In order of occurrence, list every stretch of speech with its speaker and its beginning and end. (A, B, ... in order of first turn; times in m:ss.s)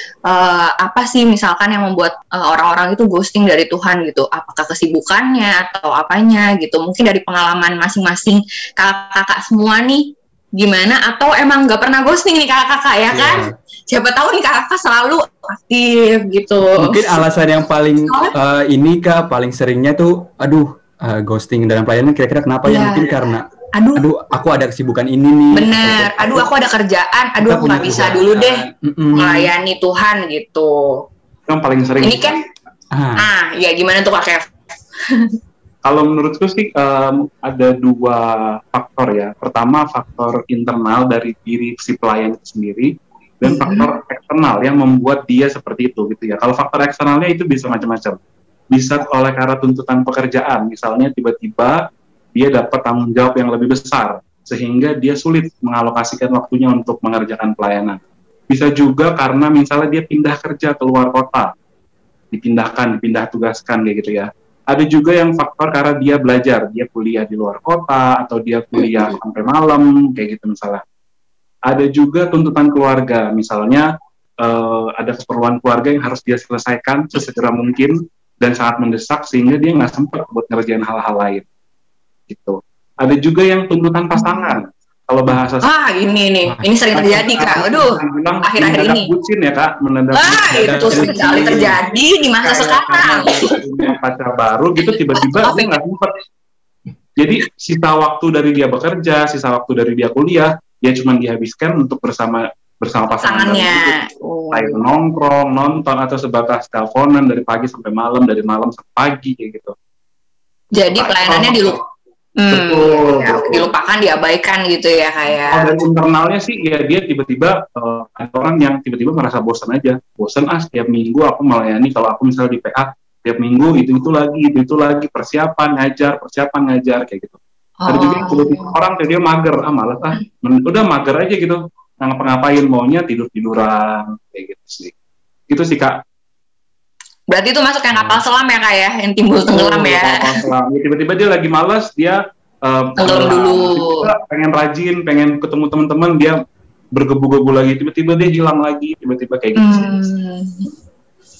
0:00.3-0:17.2 A
0:13.1-0:13.5 B
0:16.8-0:26.5 B
0:18.1-0:18.3 A
0:22.6-0:23.1 A
0:23.7-0:24.0 A
0:25.5-0:28.6 A
0:27.4-0:29.5 B
0:29.1-0:31.0 A
0:31.5-0:32.3 C
0:32.0-0:32.4 A
0:32.9-0:33.3 B
0:33.2-0:34.5 A
0:35.1-0:35.3 A
0:35.8-0:48.2 C
0:43.4-0:43.9 A
0:48.7-0:51.8 C
0:52.3-1:01.5 C
1:02.3-1:10.8 C
1:11.7-1:13.9 C
1:14.4-1:21.4 C
1:22.3-1:25.7 C
1:24.2-1:24.4 A
1:25.6-1:29.1 A
1:26.9-1:31.7 C
1:30.1-1:33.6 A
1:30.5-1:31.8 B
1:32.4-1:36.2 C
1:34.9-1:35.8 A
1:37.2-1:44.0 C
1:43.2-1:44.8 A
1:44.5-1:49.7 C
1:50.7-1:51.8 A
1:50.9-1:51.8 C
1:52.4-1:55.7 A
1:52.5-1:53.7 C
1:55.5-2:14.9 C
2:07.8-2:08.8 A
2:15.5-2:16.0 C
2:17.3-2:20.4 A
2:17.9-2:18.2 B
2:19.4-2:26.4 C
2:23.0-2:24.1 A
2:26.9-2:29.9 C
2:29.6-2:30.7 A